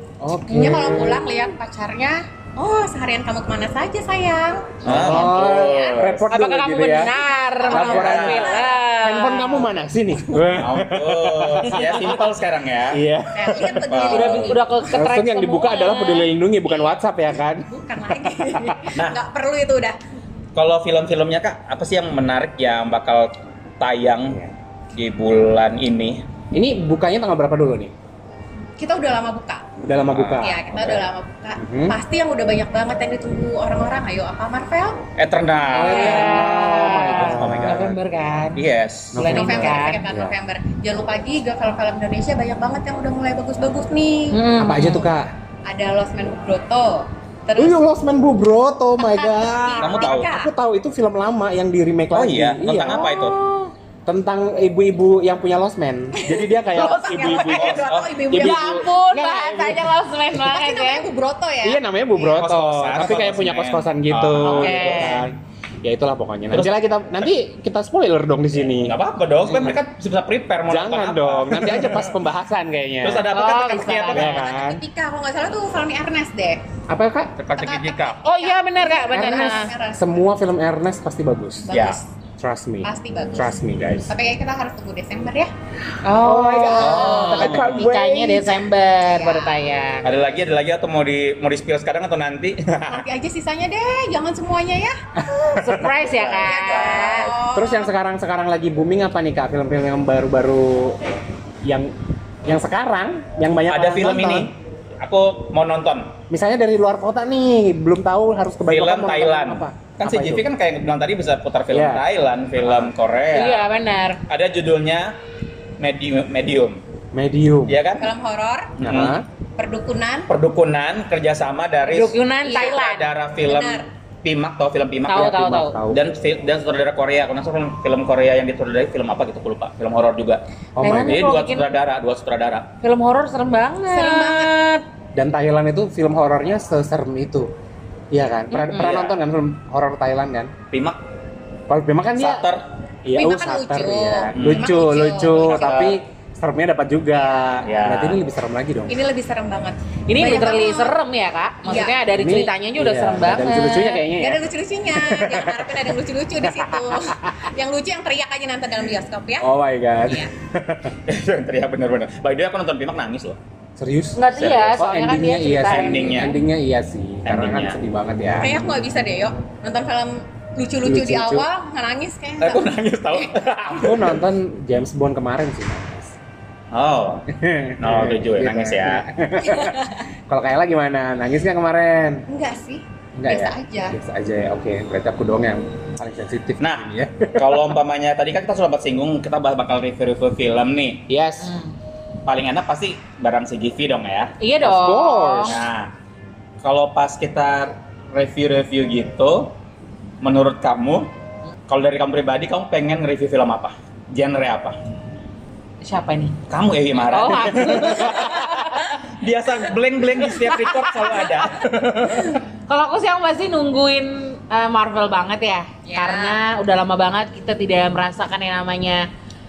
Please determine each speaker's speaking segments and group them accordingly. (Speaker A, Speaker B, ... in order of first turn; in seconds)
Speaker A: 0.2-1.3, 4.8-7.1, 7.7-12.2, 12.9-13.9, 14.9-17.7, 18.5-18.8, 26.5-27.9, 29.8-30.6, 31.6-32.0, 35.7-38.0, 39.1-40.4, 44.6-45.3, 47.6-53.5, 54.1-60.5, 61.6-69.8, 70.7-73.3, 74.1-74.8, 76.9-77.3, 79.1-81.7, 82.4-84.1, 86.1-88.5, 95.2-95.9, 97.5-101.1, 101.7-101.9, 102.5-104.5, 106.3-110.5, 111.7-112.0, 112.6-112.9, 117.1-117.8, 118.8-119.2, 125.1-126.0, 130.8-131.2, 135.1-137.5, 138.1-140.5, 141.7-142.5, 143.1-149.0, 152.2-155.9, 156.5-157.3, 159.4-160.9, 163.8-168.6, 170.8-171.5, 173.7-176.2, 177.3-182.2, 183.2-187.7, 191.1-191.5, 194.6-195.6
Speaker B: 0.5-6.0, 7.6-8.8, 13.3-14.7, 16.7-17.0, 17.7-20.0, 28.8-29.8, 30.4-35.0, 39.2-44.4, 45.7-47.8, 49.0-50.5, 56.2-58.9, 60.5-61.8, 74.1-76.6, 77.5-80.2, 81.6-82.1, 82.8-85.5, 86.6-88.0, 89.1-89.5, 92.9-94.9, 96.3-97.9, 118.0-118.8, 119.6-120.3, 122.4-122.8, 123.4-123.8, 133.9-134.6, 143.1-145.9, 147.2-147.7, 148.9-151.0, 151.6-152.0, 153.5-159.5, 164.6-166.0, 168.4-174.1, 179.5-179.8, 182.3-184.0, 215.9-216.4
Speaker C: 4.8-6.3, 7.7-8.5, 10.5-13.0, 13.9-14.6, 19.0-19.2, 20.6-24.4, 24.9-26.2, 30.1-31.1, 35.2-36.4, 37.1-38.0, 38.6-39.2, 49.8-50.3, 52.1-53.4, 57.5-58.2, 62.2-65.2, 68.8-72.2, 73.0-74.3, 77.4-78.2, 81.7-82.0, 86.8-87.9, 90.0-93.1, 96.0-97.4, 103.7-106.1, 108.6-113.7, 114.3-115.1, 115.8-116.8, 117.7-118.1, 118.8-119.2, 120.3-132.7, 138.7-139.2, 140.7-141.0, 142.1-142.6, 144.3-144.8, 145.4-146.0, 147.6-148.2, 161.1-163.4, 164.3-164.7, 165.7-166.4, 167.2-167.8, 172.4-174.0, 176.7-177.2, 177.8-179.1, 186.6-191.0, 192.2-194.3, 195.4-195.9, 196.6-199.6, 200.2-201.1, 201.7-204.8, 206.5-212.4
Speaker D: 6.3-9.7, 14.1-16.3, 35.8-38.6, 39.1-40.0, 44.3-45.1, 52.9-53.4, 58.4-61.1, 64.4-65.3, 73.3-74.4, 78.2-79.7, 86.0-90.1, 95.5-97.3, 113.3-114.2, 121.8-123.1, 125.1-125.8, 130.8-131.7, 132.8-134.8, 138.5-138.9, 150.1-154.0, 164.1-166.3, 191.4-191.7, 194.4-195.6, 205.8-206.4, 207.1-209.0, 210.2-211.5, 212.2-219.0